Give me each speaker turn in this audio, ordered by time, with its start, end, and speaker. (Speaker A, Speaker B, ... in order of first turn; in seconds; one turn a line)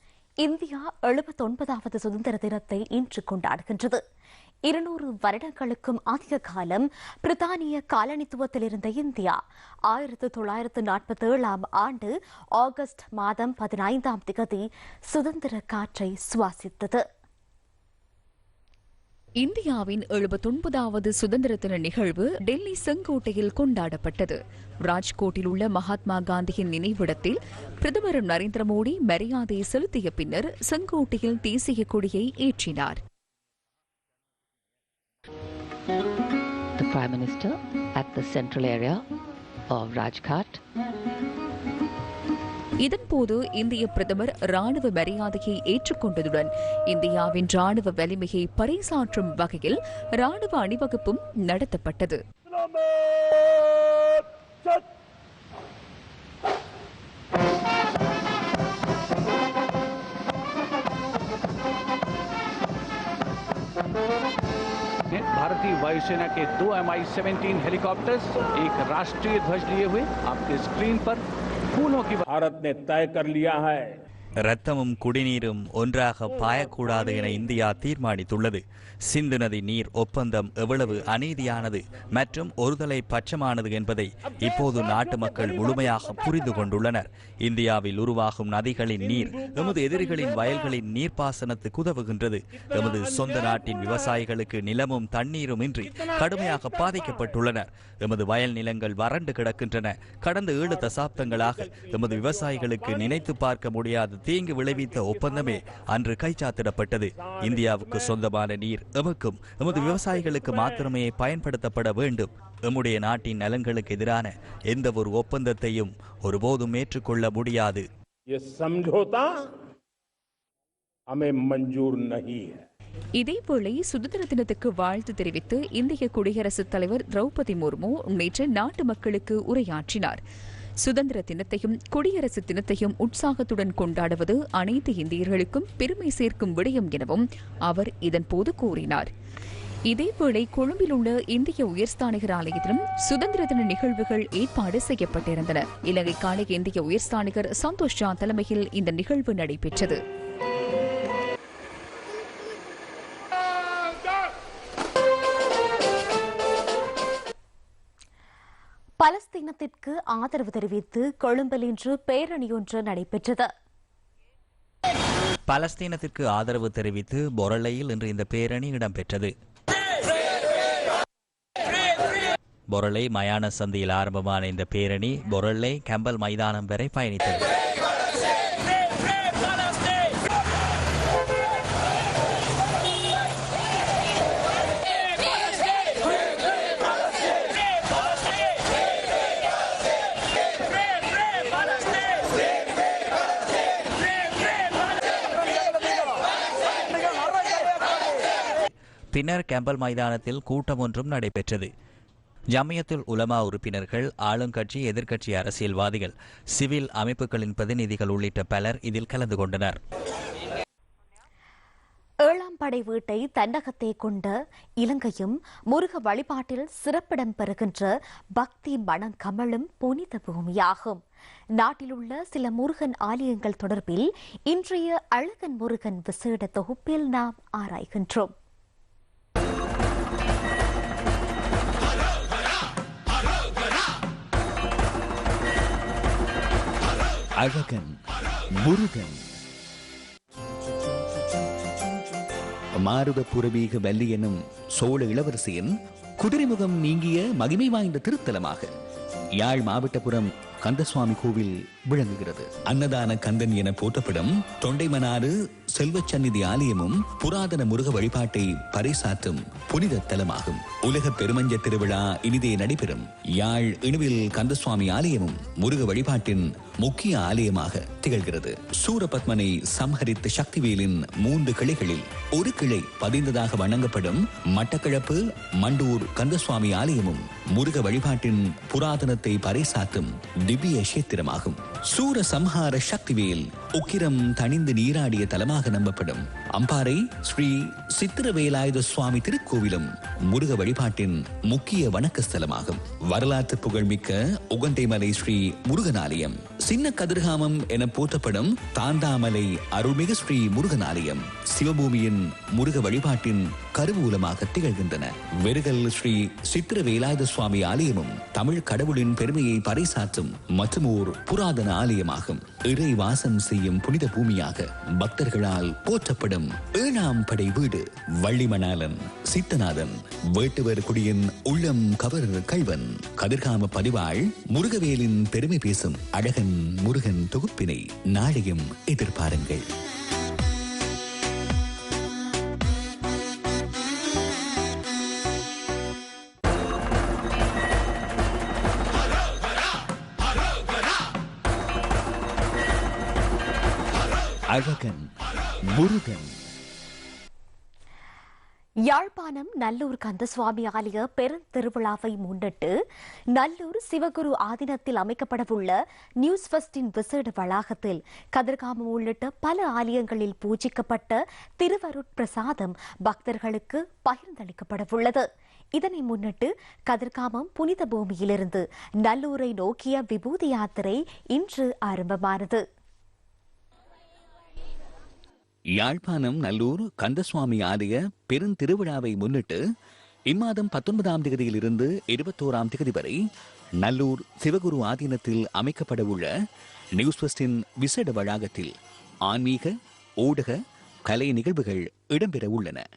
Speaker A: 0.4-4.0
Speaker A: 4.7-17.0
Speaker B: 19.4-33.0
Speaker C: 36.8-39.0
Speaker C: 39.7-40.6
Speaker B: 42.8-52.2
Speaker D: 65.1-71.2
Speaker D: 71.7-72.2
Speaker E: 72.3-73.9
Speaker F: 74.4-117.8
Speaker E: 118.3-119.4
Speaker E: 121.1-122.6
Speaker B: 123.2-130.2
Speaker B: 130.8-139.1
Speaker B: 139.9-150.0
Speaker A: 159.0-163.5
Speaker F: 165.5-169.3
Speaker F: 172.7-177.5
Speaker F: 199.1-201.7
Speaker F: 202.5-209.8
Speaker A: 212.2-221.0
Speaker A: 221.6-228.3
Speaker G: 237.4-238.0
Speaker G: 238.5-239.3
Speaker G: 242.8-248.7
Speaker G: 249.4-329.7
Speaker G: 344.5-345.1
Speaker G: 345.7-346.3
Speaker A: 348.9-352.7
Speaker A: 353.3-365.2
Speaker A: 365.8-372.6
Speaker G: 375.8-379.6
Speaker G: 380.3-383.2
Speaker G: 383.8-386.3
Speaker G: 387.0-388.7
Speaker G: 389.3-392.8